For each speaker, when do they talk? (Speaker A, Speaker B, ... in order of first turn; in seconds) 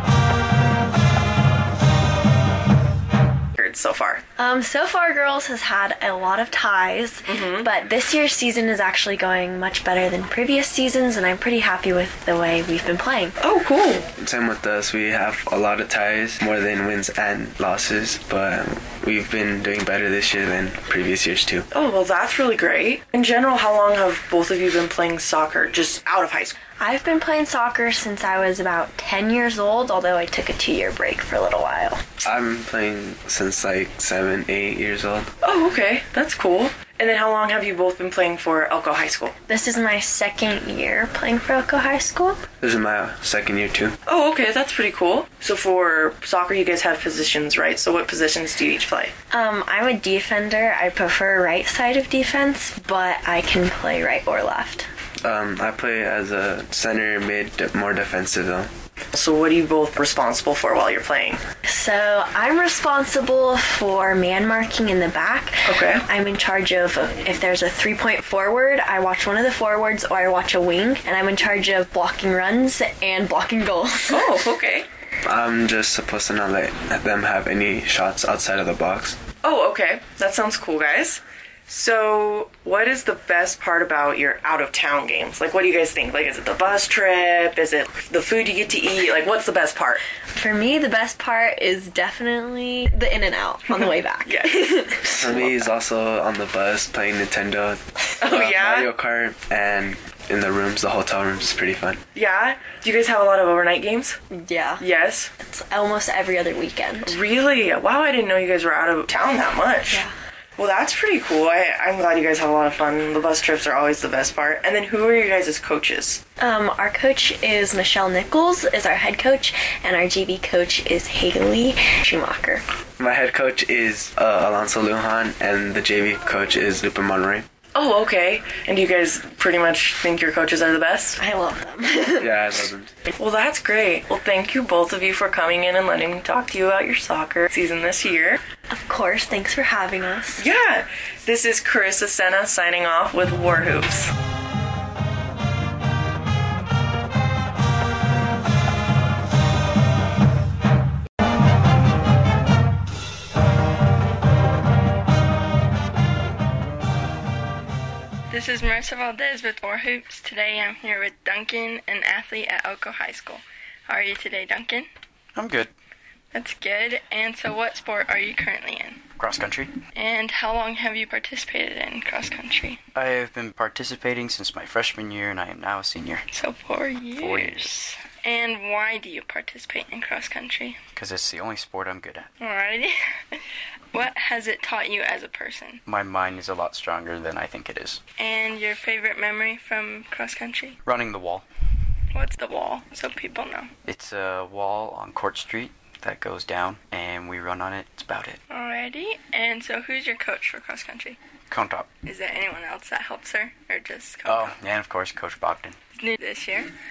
Speaker A: 3.6-4.2, 7.3-7.7, 13.4-14.1, 21.7-26.6, 35.4-39.3, 44.0-49.1, 59.1-61.4, 65.6-66.0, 74.1-74.9, 79.4-90.0, 93.7-95.5, 98.2-98.9, 102.1-104.2, 104.8-105.3, 107.0-110.0, 110.6-116.2, 127.7-131.2, 133.1-138.4, 140.3-144.1
Speaker B: 4.4-7.0, 7.7-13.3, 26.8-31.9, 39.5-42.3, 49.3-54.8, 61.7-65.6, 66.1-74.0, 90.3-94.5, 105.5-106.9, 116.4-122.6, 131.2-132.3, 138.7-140.2
Speaker C: 14.2-21.6, 32.2-35.3, 42.6-44.0, 55.2-58.7, 75.2-79.2, 95.1-102.0, 123.0-127.5, 132.2-132.9
Speaker D: 158.3-164.9, 166.3-169.1, 169.9-172.8, 176.3-180.8, 182.4-183.4, 183.9-185.8, 188.2-190.8, 192.1-193.7, 198.5-201.2, 202.0-204.6, 205.9-206.7
Speaker E: 165.3-165.7, 169.2-169.8, 172.9-176.2, 177.2-177.7, 181.0-182.3, 185.8-188.0, 190.8-191.4, 193.8-198.4, 201.5-201.9, 204.3-205.8